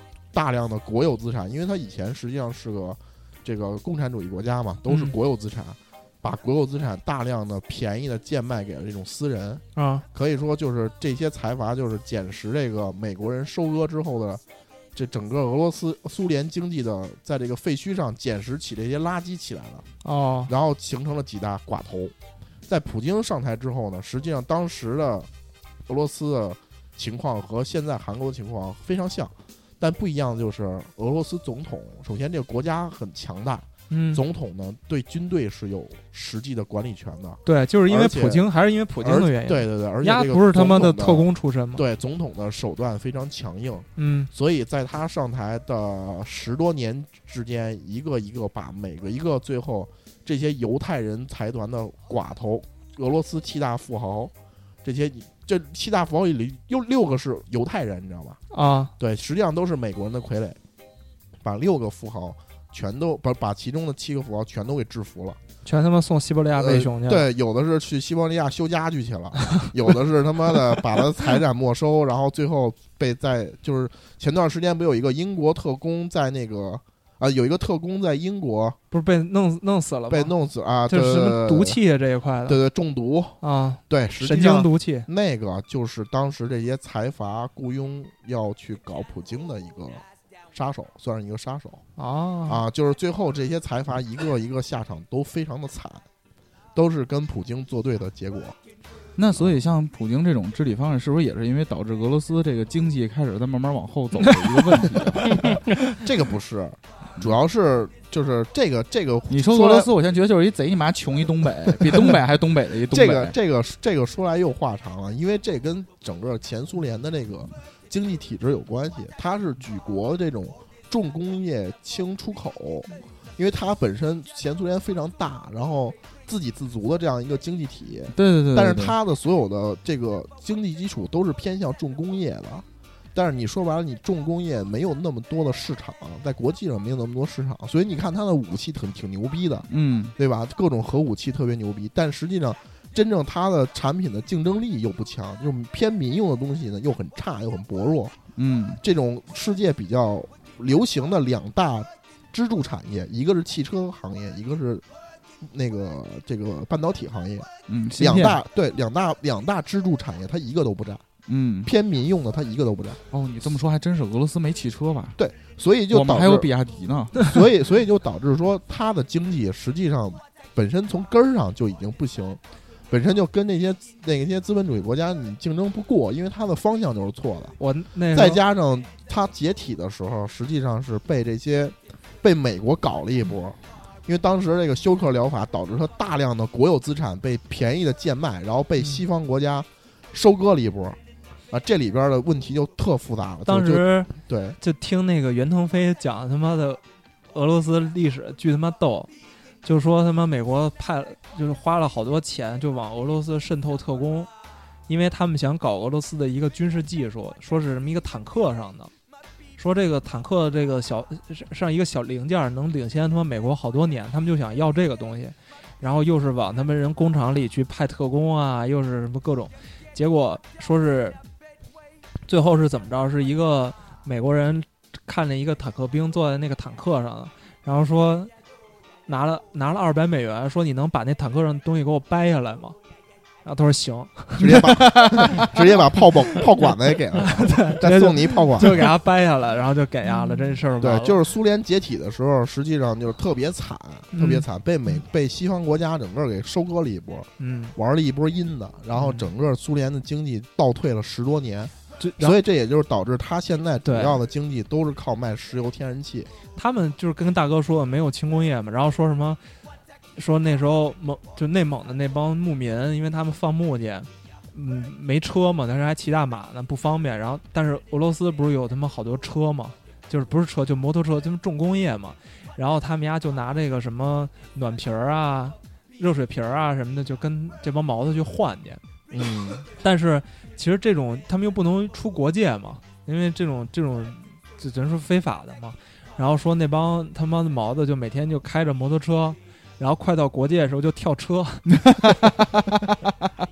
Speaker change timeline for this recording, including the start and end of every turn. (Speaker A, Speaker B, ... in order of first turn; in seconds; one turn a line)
Speaker A: 0.3-14.4
Speaker B: 4.9-5.1
Speaker B: 9.8-10.0
Speaker A: 14.9-19.9
Speaker B: 20.0-20.5
Speaker A: 20.5-22.1
Speaker A: 22.7-25.3
Speaker A: 25.9-38.4
Speaker B: 33.9-34.2
Speaker B: 37.4-41.8
Speaker A: 39.0-54.3
Speaker B: 44.0-44.3
Speaker A: 54.8-58.4
Speaker B: 58.5-58.9
Speaker A: 59.0-60.6
Speaker A: 61.4-65.4
Speaker B: 65.6-67.3
Speaker A: 66.5-78.8
Speaker B: 78.9-82.6
Speaker A: 80.1-81.8
Speaker A: 82.5-91.8
Speaker B: 83.4-85.1
Speaker B: 92.0-92.6
Speaker A: 92.5-96.0
Speaker A: 96.7-98.6
Speaker C: 99.2-105.6
Speaker A: 105.9-109.9
Speaker C: 109.3-113.3
Speaker A: 111.9-112.1
Speaker A: 112.9-148.2
Speaker C: 128.1-128.9
Speaker C: 139.7-140.1
Speaker C: 148.3-148.8
Speaker A: 148.8-154.8
Speaker A: 155.4-161.0
Speaker C: 157.7-158.4
Speaker C: 161.2-161.7
Speaker A: 161.6-163.0
Speaker C: 163.1-165.2
Speaker A: 165.2-166.5
Speaker C: 165.9-167.3
Speaker A: 167.2-177.6
Speaker B: 177.6-178.4
Speaker A: 178.1-191.0
Speaker A: 191.5-194.6
Speaker B: 193.4-196.8
Speaker B: 197.3-199.1
Speaker B: 199.6-204.3
Speaker B: 204.9-208.9
Speaker B: 209.6-221.2
Speaker B: 222.3-228.3
Speaker B: 229.1-232.8
Speaker B: 233.4-235.6
Speaker A: 234.4-238.9
Speaker B: 237.2-241.2
Speaker A: 240.8-256.3
Speaker B: 244.1-244.4
Speaker B: 247.4-247.7
Speaker B: 248.9-249.3
Speaker B: 252.0-252.4
Speaker B: 253.8-254.2
Speaker B: 256.6-259.4
Speaker B: 260.1-278.8
Speaker A: 279.1-279.7
Speaker B: 279.8-291.8
Speaker C: 291.8-292.7